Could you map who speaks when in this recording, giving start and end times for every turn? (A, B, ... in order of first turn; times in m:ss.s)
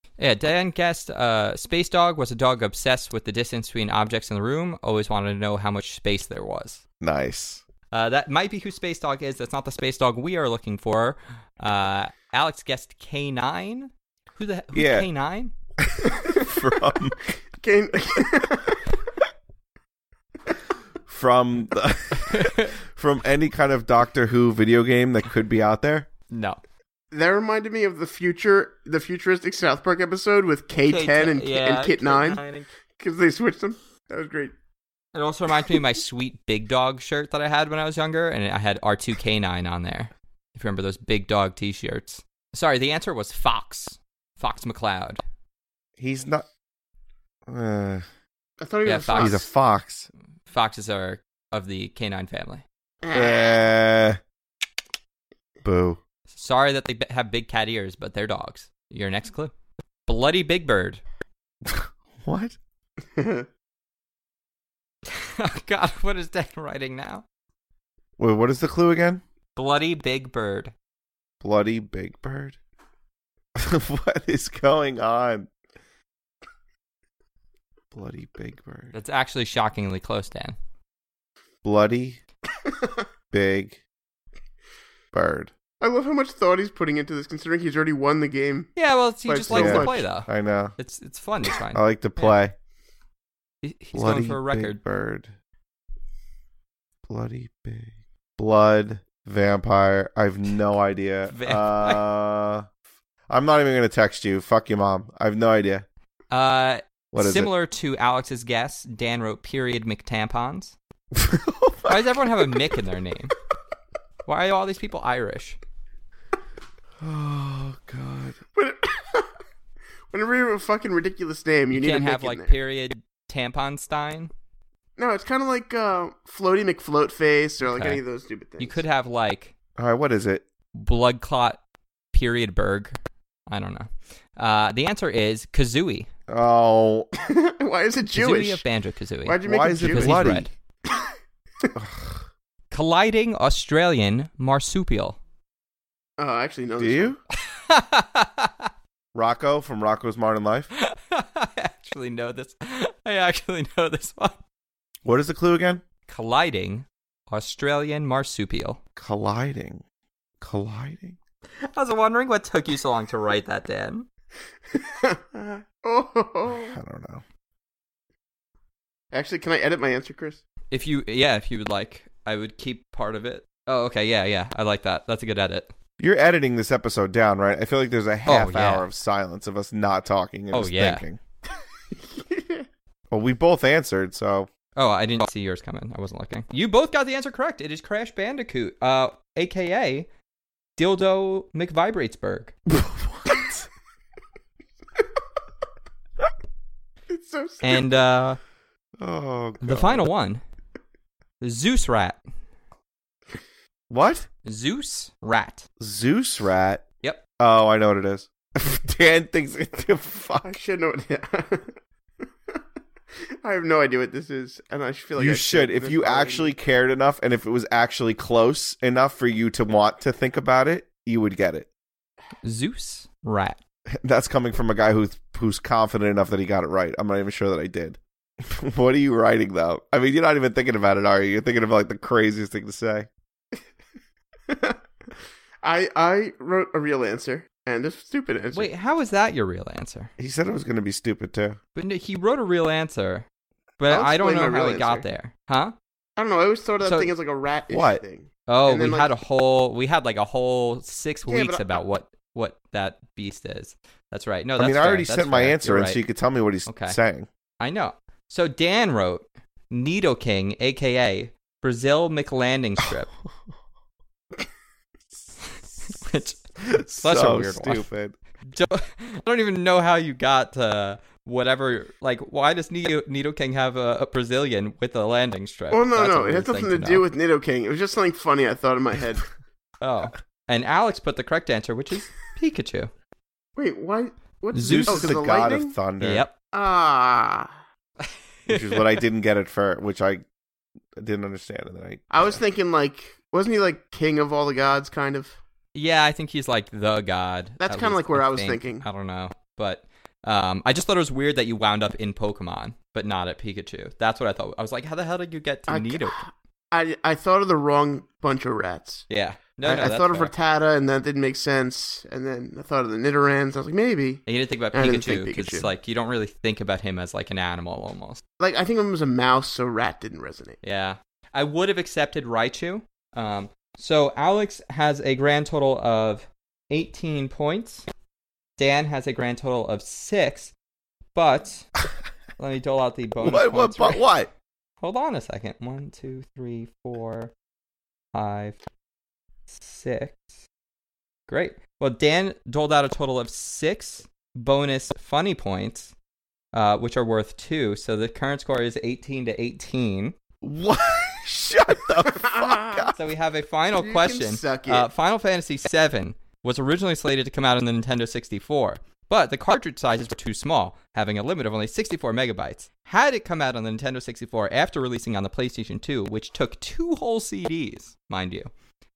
0:00.2-0:06.8 A
0:07.0-0:07.6 B
0:07.9-0:15.5 A
0:14.7-0:15.1 B
0:15.8-0:17.4 B
0:16.2-0:16.5 C
0:17.6-0:19.0 C
0:21.1-0:26.1 B
0:22.2-0:22.7 A
0:26.3-0:26.6 A
0:27.1-0:32.4 C
0:30.8-0:32.7 A
0:33.0-0:34.5 C
0:35.1-0:45.2 A
0:46.0-0:46.4 B
0:47.4-0:48.0 B
0:48.6-0:49.5 C
0:48.8-0:49.4 A
0:49.2-0:50.1 B
0:50.5-0:52.6 A
0:53.0-0:53.7 C
0:53.1-0:54.2 B
0:55.6-0:56.0 B
0:56.3-0:59.5 A
1:00.0-1:01.0 A
1:01.6-1:02.6 B
1:03.1-1:03.5 C
1:05.1-1:07.2 A
1:08.2-1:09.2 B
1:09.5-1:10.7 A
1:11.4-1:12.6 B
1:13.6-1:15.5 B
1:17.9-1:18.9 B
1:18.9-1:20.6 A
1:21.6-1:22.2 B
1:23.3-1:23.8 B
1:25.1-1:25.5 B
1:25.8-1:28.7 C
1:28.8-1:32.3 A
1:29.3-1:30.1 C
1:29.5-1:30.7 B
1:31.7-1:32.5 B
1:33.6-1:34.8 A
1:33.9-1:35.3 B
1:37.1-1:42.7 B
1:41.3-1:42.0 A
1:43.3-1:45.8 B
1:46.3-1:50.8 A
1:47.1-1:47.5 B
1:51.1-1:52.1 B
1:51.9-1:53.3 A
1:54.2-1:55.6 A
1:57.0-1:58.4 B
1:58.5-1:59.3 C
2:00.1-2:02.6 C
2:01.7-2:04.3 A
2:05.0-2:08.8 C
2:07.6-2:08.0 A
2:08.6-2:09.5 A
2:09.8-2:10.4 B
2:10.7-2:11.6 A
2:12.1-2:13.0 A
2:13.5-2:16.1 A
2:16.3-2:17.1 B
2:17.2-2:18.6 C
2:18.1-2:20.5 A
2:19.2-2:21.1 C
2:19.4-2:20.5 B
2:21.7-2:22.3 B
2:22.7-2:25.2 A
2:26.2-2:27.2 C
2:26.8-2:27.2 B
2:27.3-2:28.7 A
2:29.1-2:30.7 B
2:30.7-2:34.4 A
2:35.0-2:35.8 B
2:36.1-2:38.8 A
2:39.0-2:39.8 B
2:40.4-2:41.2 B
2:41.7-2:44.0 A
2:44.7-2:46.8 C
2:46.5-2:47.2 B
2:49.1-2:50.4 C
2:50.7-2:55.7 A
2:56.0-3:01.2 B
2:58.2-2:58.9 A
3:00.5-3:01.0 A
3:02.1-3:02.6 C
3:03.1-3:04.5 B
3:04.8-3:10.1 A
3:10.8-3:12.5 A
3:12.7-3:13.7 B
3:17.1-3:17.9 C
3:17.6-3:18.4 A
3:19.0-3:20.1 B
3:19.6-3:20.4 A
3:21.4-3:22.2 A
3:23.9-3:24.3 B
3:24.4-3:25.7 A
3:25.8-3:26.8 B
3:27.4-3:30.5 B
3:30.4-3:31.8 C
3:33.4-3:36.5 C
3:35.2-3:41.7 B
3:42.4-3:43.6 A
3:44.0-3:53.1 B
3:54.5-3:54.8 C
3:55.6-3:58.7 C
3:58.5-4:00.1 A
4:00.2-4:01.6 B
4:01.7-4:03.2 A
4:03.8-4:05.7 A
4:03.9-4:05.0 C
4:06.2-4:09.2 C
4:06.8-4:07.1 A
4:07.7-4:08.0 B
4:08.5-4:16.0 A
4:11.3-4:11.8 C
4:14.6-4:17.3 B
4:16.6-4:17.0 A
4:17.6-4:23.1 A
4:25.8-4:27.9 A
4:26.6-4:28.2 B
4:28.5-4:37.0 A
4:35.7-4:39.3 C
4:39.8-4:42.9 A
4:43.6-4:45.8 C
4:44.5-4:45.1 A
4:44.6-4:46.3 B
4:46.0-4:46.3 A
4:46.5-4:47.5 C
4:48.0-4:48.8 A
4:48.5-4:50.2 B
4:51.0-4:52.4 B
4:52.1-4:55.4 C
4:55.7-5:06.2 A
4:57.6-4:58.9 C
5:05.7-5:09.0 C
5:09.1-5:10.3 A
5:09.6-5:15.7 C
5:14.2-5:18.2 A
5:18.4-5:20.6 C
5:20.6-5:27.8 A
5:28.6-5:30.5 A
5:31.1-5:31.7 A
5:32.4-5:34.0 A
5:33.2-5:34.3 B
5:34.8-5:37.3 A
5:38.1-5:38.6 A
5:39.5-5:40.3 A
5:41.3-5:45.9 A
5:46.5-5:50.2 A
5:50.4-5:52.9 B
5:52.0-5:52.9 C
5:52.9-6:08.5 A
5:53.7-5:54.9 C